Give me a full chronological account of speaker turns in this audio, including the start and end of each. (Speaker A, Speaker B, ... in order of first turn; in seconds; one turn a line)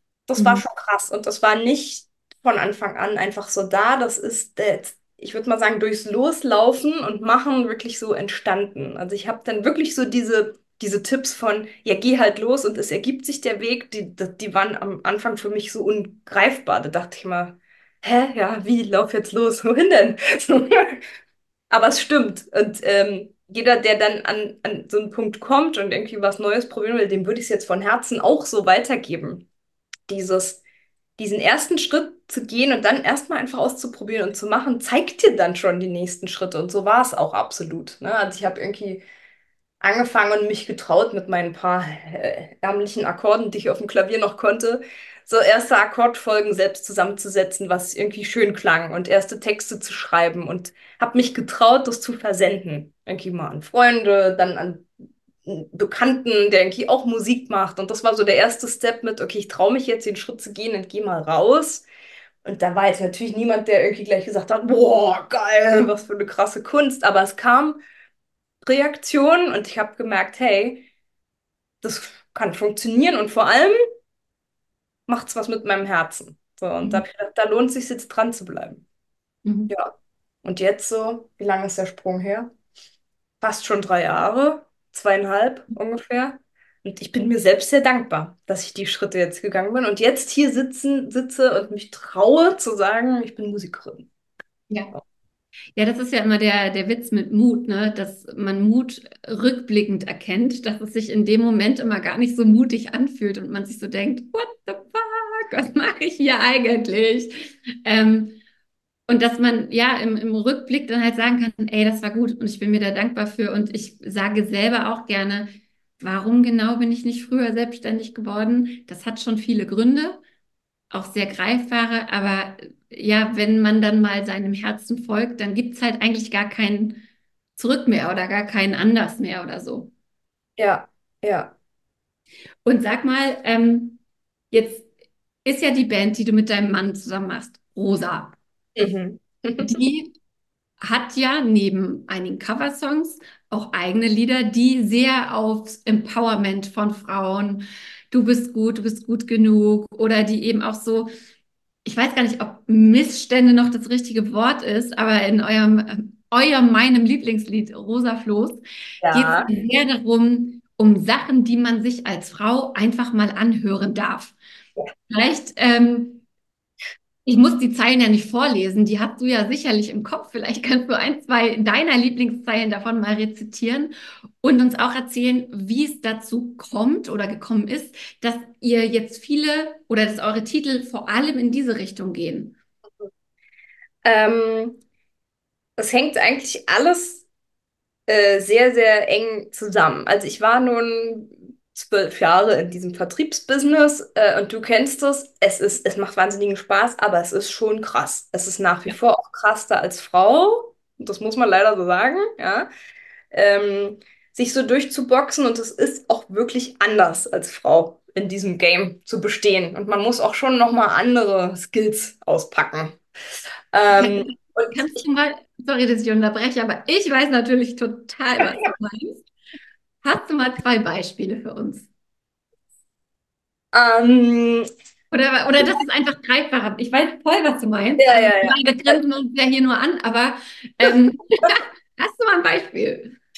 Speaker A: 0.3-21.0
Speaker B: 0.4-0.6
Speaker A: 21.7-29.4
Speaker A: 30.1-30.6
Speaker A: 31.2-39.0
Speaker A: 39.8-54.9
Speaker A: 55.5-61.9
Speaker A: 62.4-67.8
Speaker A: 68.6-70.9
Speaker A: 71.8-73.8
Speaker A: 75.1-78.8
Speaker B: 79.5-79.7
Speaker A: 80.4-82.5
Speaker A: 83.4-94.1
Speaker B: 95.8-108.4
Speaker B: 109.1-120.2
Speaker B: 120.9-127.0
Speaker B: 127.6-129.9
Speaker A: 130.6-131.5
Speaker B: 132.7-134.0
Speaker B: 134.5-134.9
Speaker B: 135.4-138.4
Speaker A: 138.8-139.8
Speaker B: 139.6-140.2
Speaker B: 140.8-151.1
Speaker B: 151.8-164.4
Speaker A: 159.0-159.5
Speaker B: 165.1-166.2
Speaker B: 167.2-182.6
Speaker A: 184.0-184.8
Speaker A: 185.8-187.2
Speaker A: 188.1-202.7
Speaker A: 203.3-213.0
Speaker A: 213.7-215.0
Speaker B: 213.9-219.3
Speaker B: 220.0-221.9
Speaker A: 223.7-224.7
Speaker B: 225.1-233.2
Speaker A: 228.0-229.0